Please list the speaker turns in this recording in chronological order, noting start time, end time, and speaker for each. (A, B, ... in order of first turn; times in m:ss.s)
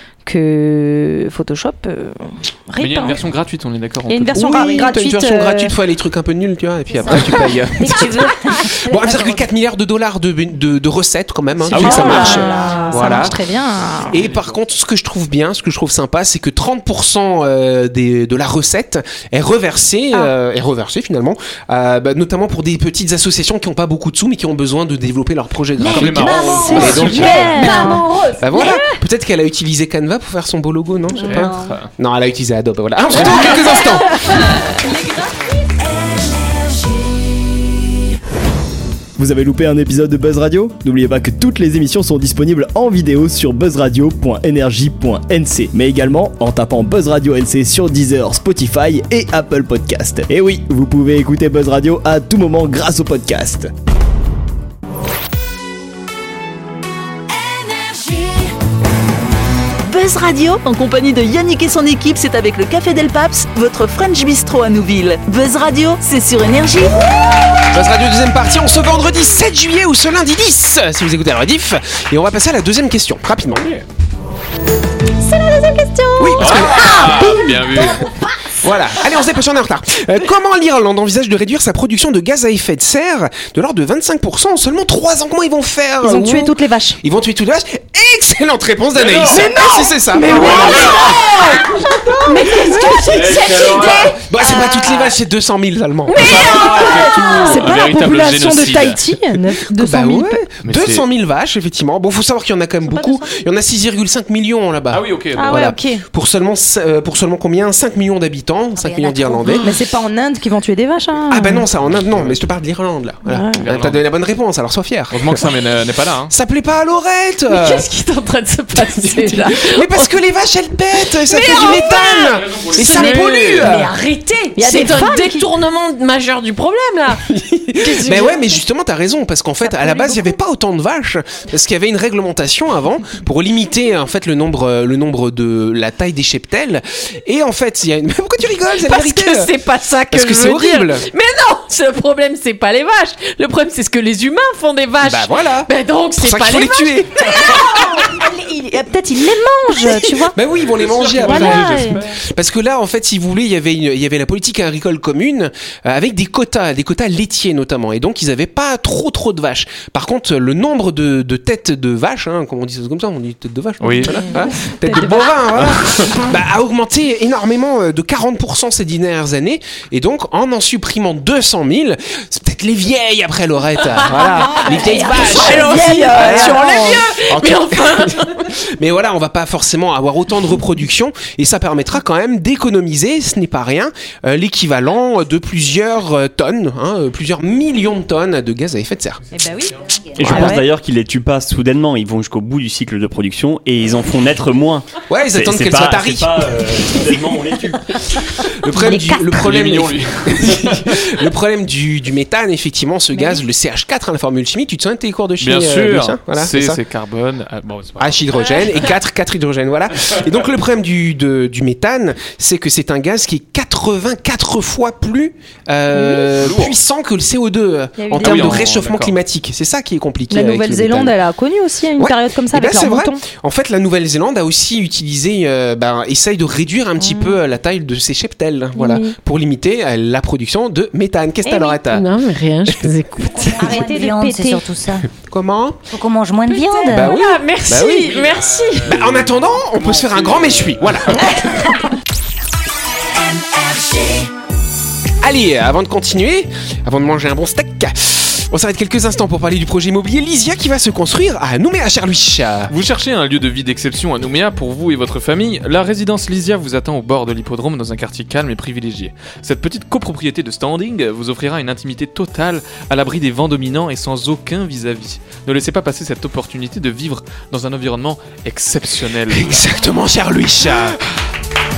0:00.2-0:03.2 A
0:02.8-0:04.6 B
0:04.1-0:05.8 A
0:04.4-0:13.4 C
0:06.9-0:09.5 D
0:11.6-0:13.3 B
0:11.7-0:14.2 A
0:14.1-0:27.9 C
0:14.1-0:14.5 B
0:25.8-0:27.6 B
0:25.9-0:28.8 E
0:26.0-0:29.0 A
0:28.4-0:34.1 C
0:31.2-0:31.9 B
0:31.2-0:31.6 A
0:33.3-0:34.0 A
0:39.2-0:53.7 F
0:59.8-1:07.0 G
1:07.7-1:13.7 C
1:13.5-1:13.8 B
1:15.2-1:16.4 A
1:16.2-1:17.9 C
1:16.4-1:18.0 B
1:18.6-1:30.8 C
1:26.0-1:27.0 A
1:28.9-1:29.6 B
1:29.3-1:32.8 A
1:30.2-1:31.6 E
1:30.3-1:31.2 B
1:32.2-1:34.2 E
1:33.1-1:34.2 B
1:33.6-1:36.4 C
1:34.4-1:35.0 A
1:36.1-1:40.4 A
1:36.2-1:39.1 B
1:39.7-1:49.7 C
1:40.6-1:41.0 B
1:42.8-1:43.3 A
1:44.9-1:45.7 B
1:45.4-1:46.0 A
1:48.7-1:49.7 D
1:49.6-1:51.7 A
1:51.3-1:55.4 C
1:51.8-1:52.4 B
1:53.2-1:53.6 A
1:53.6-1:54.0 B
1:55.1-1:56.3 B
1:56.3-1:57.8 C
1:57.5-2:00.1 E
1:59.0-2:03.9 C
2:01.2-2:07.3 E
2:02.2-2:03.6 B
2:04.6-2:05.5 A
2:07.3-2:19.5 C
2:07.8-2:08.6 E
2:09.7-2:10.3 A
2:18.8-2:27.6 E
2:20.1-2:21.0 C
2:25.0-2:27.7 C
2:27.5-2:30.4 A
2:30.3-3:09.2 C
2:30.5-2:32.2 B
2:31.2-2:32.0 A
2:43.8-2:44.2 B
2:44.1-2:44.3 A
2:44.9-2:45.2 A
2:45.6-2:46.1 B
2:54.0-2:58.5 E
2:54.3-2:57.0 A
3:09.3-3:09.7 B
3:09.3-3:10.7 A
3:10.2-3:18.0 H
3:10.2-3:10.5 C
3:15.1-3:16.5 C
3:18.6-3:26.8 C
3:18.7-3:19.3 D
3:19.2-3:21.0 B
3:23.1-3:23.4 A
3:25.4-3:28.9 B
3:28.0-3:41.2 C
3:35.9-3:36.3 A
3:36.4-3:36.8 B
3:38.0-3:38.7 A
3:38.2-3:39.2 B
3:40.3-3:43.2 A
3:42.0-3:52.0 C
3:47.0-3:47.4 A
3:48.7-3:49.1 A
3:51.4-3:53.7 E
3:53.3-3:55.1 D
3:53.6-3:54.6 A
3:55.1-3:55.8 C
3:55.9-3:57.1 D
3:56.4-3:58.9 E
3:56.9-3:58.1 C
3:58.1-4:01.2 B
3:58.8-4:01.4 C
4:05.2-4:12.7 C
4:12.7-4:29.7 B
4:29.3-4:31.0 C